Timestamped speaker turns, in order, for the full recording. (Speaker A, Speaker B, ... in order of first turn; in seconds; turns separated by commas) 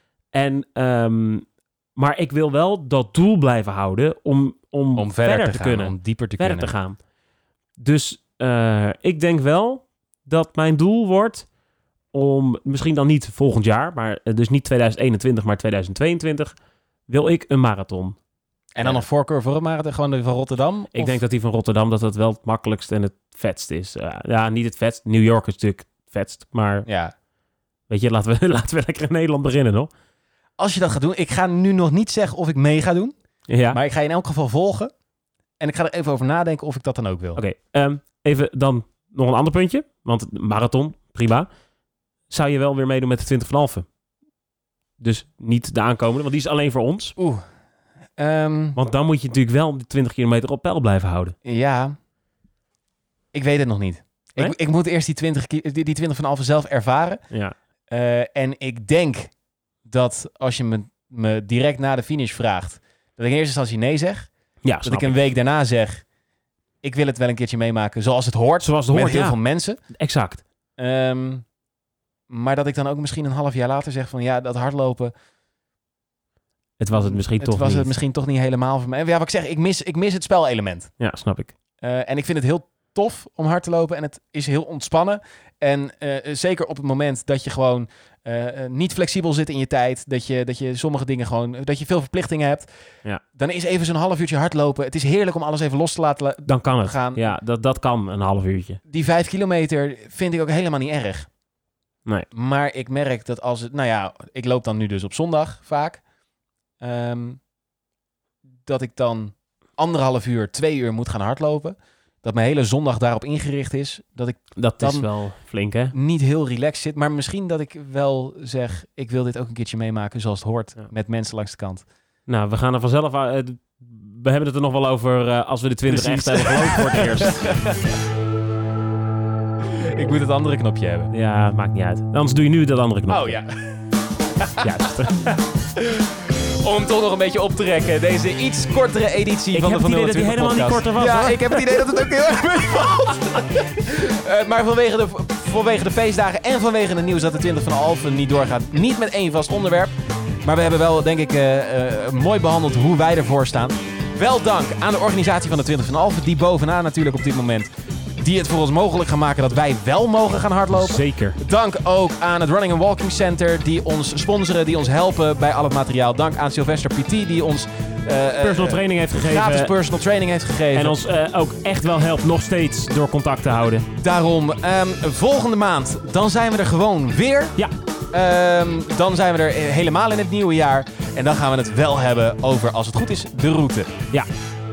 Speaker A: 0.3-7.0, Speaker B: 5.0-6.7, Speaker A: 7.8-11.4, Speaker A: 12.1-16.5, Speaker A: 17.1-18.2, Speaker B: 18.7-21.2, Speaker A: 20.9-26.9, Speaker B: 26.9-27.1, Speaker A: 27.9-29.9, Speaker B: 30.6-33.1, Speaker A: 33.5-33.8, Speaker B: 33.7-34.9, Speaker B: 35.6-37.4, Speaker A: 37.4-41.5, Speaker A: 42.3-43.9, Speaker A: 45.0-47.1, Speaker B: 47.2-47.4, Speaker B: 48.2-48.8, Speaker A: 48.7-51.3, Speaker B: 51.4-52.0, Speaker B: 53.3-57.2, Speaker B: 57.9-59.3, Speaker B: 59.8-64.3, Speaker A: 64.6-65.2, Speaker B: 64.8-66.0, Speaker B: 66.8-69.8, Speaker A: 68.6-69.4, Speaker A: 69.9-70.4, Speaker B: 70.8-71.4, Speaker B: 72.3-75.1, Speaker A: 76.8-77.9, Speaker B: 76.9-80.9, Speaker A: 81.0-81.5, Speaker B: 81.8-92.7, Speaker B: 93.3-97.3, Speaker A: 96.5-98.8, Speaker B: 98.9-101.3, Speaker B: 102.3-106.0, Speaker B: 106.8-107.4, Speaker B: 108.6-115.1, Speaker A: 114.5-115.9, Speaker B: 115.9-121.8, Speaker A: 122.3-127.5, Speaker B: 125.9-128.0, Speaker B: 129.8-131.1, Speaker A: 131.1-133.4, Speaker B: 133.1-133.8, Speaker B: 134.4-149.9, Speaker A: 134.6-135.3, Speaker A: 139.5-141.8, Speaker B: 150.4-171.0, Speaker A: 160.7-161.4, Speaker A: 168.4-169.7, Speaker A: 170.7-173.9, Speaker B: 174.0-177.6, Speaker B: 178.1-183.9